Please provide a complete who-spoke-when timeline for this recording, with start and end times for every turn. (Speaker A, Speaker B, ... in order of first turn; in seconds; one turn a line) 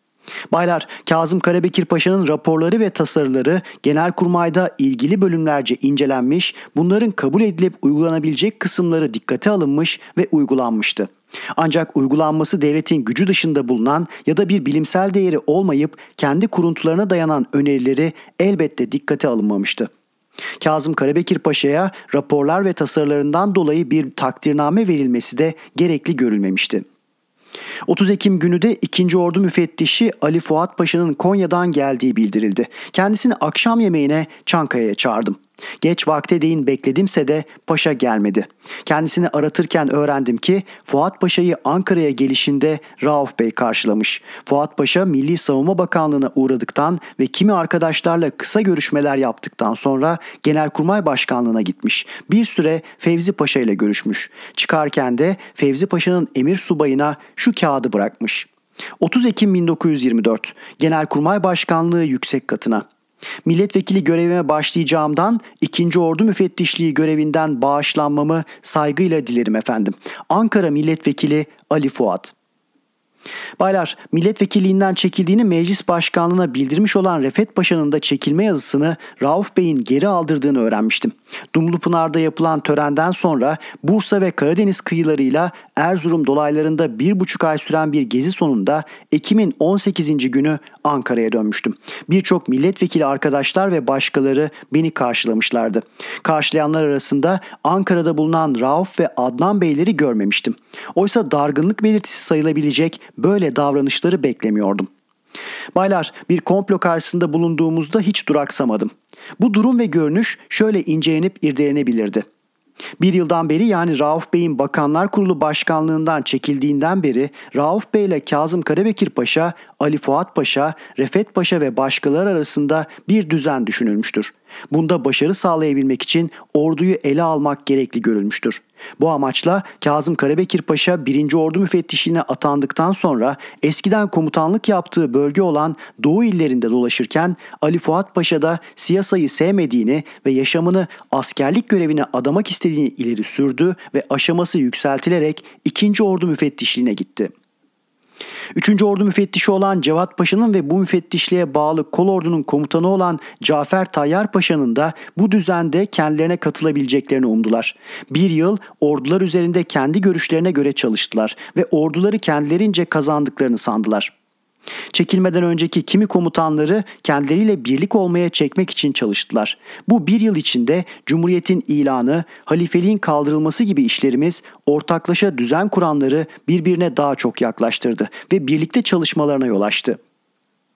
Speaker A: 0.5-19.9
Speaker A: 20.6-26.8
Speaker A: 27.9-58.5
Speaker A: 59.0-62.9
Speaker A: 63.4-72.3
Speaker A: 73.6-104.9
Speaker A: 105.7-112.2
Speaker A: 113.0-147.3
Speaker A: 148.5-164.1
Speaker A: 164.9-180.0